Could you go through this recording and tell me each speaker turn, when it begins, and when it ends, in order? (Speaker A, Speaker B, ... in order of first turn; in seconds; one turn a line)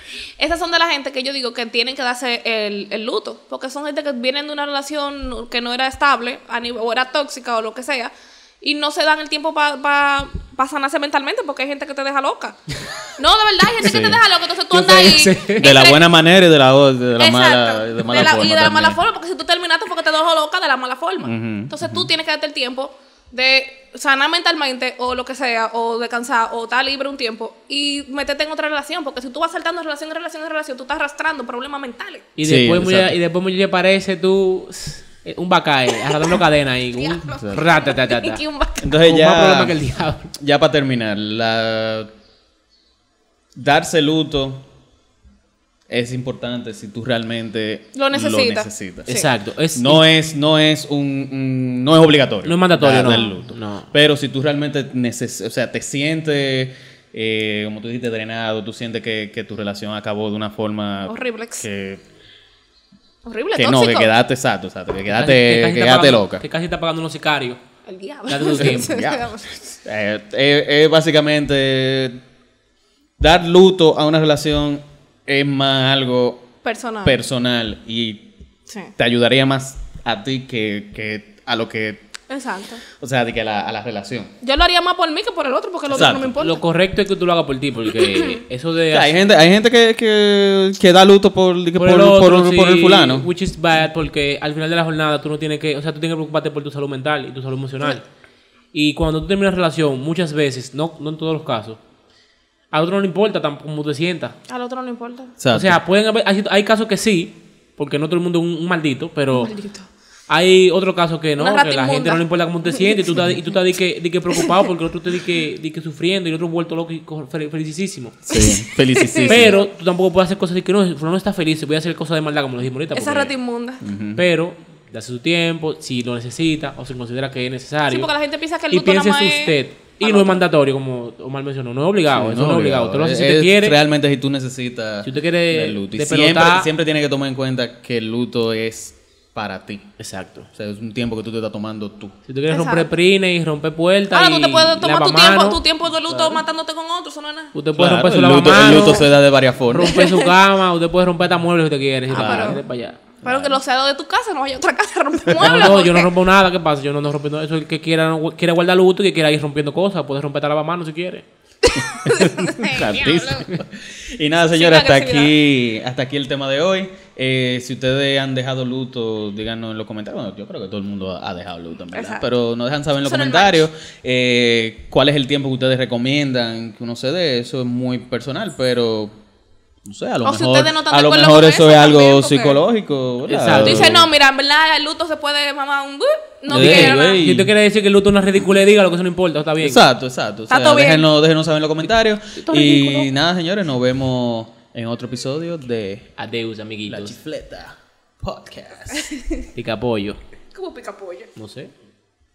Speaker A: 0.4-12.6
Speaker A: 13.2-16.0
Speaker B: 13.8-14.2
Speaker C: 14.7-15.6
Speaker B: 15.6-19.0
Speaker A: 17.2-32.3
Speaker B: 21.2-22.1
Speaker C: 32.4-38.4
Speaker B: 32.4-33.2
Speaker A: 36.0-36.4
Speaker A: 36.9-38.9
Speaker B: 37.3-37.7
Speaker B: 38.8-39.8
Speaker C: 38.9-40.3
Speaker B: 40.4-42.1
Speaker B: 43.5-44.6
Speaker B: 45.9-49.1
Speaker A: 47.9-49.3
Speaker C: 49.1-50.1
Speaker B: 49.7-62.0
Speaker C: 52.4-53.9
Speaker A: 61.1-61.7
Speaker A: 63.2-64.1
Speaker B: 63.5-66.4
Speaker C: 65.1-67.6
Speaker A: 67.9-69.6
Speaker C: 68.3-69.0
Speaker B: 68.5-72.2
Speaker B: 73.2-76.5
Speaker A: 76.6-77.2
Speaker B: 77.0-78.3
Speaker B: 79.0-82.0
Speaker A: 82.3-82.8
Speaker B: 83.0-84.3
Speaker A: 84.4-86.6
Speaker B: 85.9-86.3
Speaker C: 86.0-89.1
Speaker A: 87.9-88.4
Speaker B: 88.9-93.3
Speaker C: 91.7-98.0
Speaker C: 98.7-101.8
Speaker C: 102.7-104.3
Speaker A: 104.5-105.3
Speaker B: 105.4-105.8
Speaker C: 105.5-109.5
Speaker A: 109.3-109.9
Speaker C: 110.3-118.2
Speaker A: 111.4-113.4
Speaker B: 118.3-119.6
Speaker A: 118.3-119.6
Speaker C: 119.3-123.3
Speaker A: 122.9-123.8
Speaker B: 123.8-124.2
Speaker C: 124.1-128.1
Speaker A: 127.9-130.4
Speaker C: 128.7-133.8
Speaker B: 132.1-139.9
Speaker C: 135.0-136.7
Speaker C: 140.0-140.5
Speaker B: 140.5-142.1
Speaker C: 142.3-145.6
Speaker A: 142.5-142.9
Speaker A: 144.1-147.5
Speaker B: 146.1-146.4
Speaker C: 147.5-149.2
Speaker B: 147.8-149.9
Speaker A: 148.5-149.1
Speaker C: 149.7-153.0
Speaker A: 149.8-150.3
Speaker A: 152.1-152.6
Speaker B: 152.1-152.6
Speaker B: 153.2-153.6
Speaker A: 153.2-156.1
Speaker B: 155.2-155.8
Speaker C: 155.4-161.2
Speaker A: 161.6-163.5
Speaker B: 161.8-179.1
Speaker A: 164.5-165.3
Speaker A: 171.9-172.2
Speaker A: 173.0-173.7
Speaker B: 179.8-184.1
Speaker A: 180.2-182.6
Speaker C: 183.3-184.0
Speaker A: 183.6-187.2
Speaker B: 186.5-187.5
Speaker C: 186.5-189.8
Speaker B: 189.6-196.1
Speaker A: 190.5-191.1
Speaker C: 192.3-193.1
Speaker C: 196.2-197.2
Speaker B: 196.9-199.1
Speaker A: 198.9-199.4
Speaker C: 199.5-200.2
Speaker A: 200.5-201.3
Speaker C: 201.3-201.7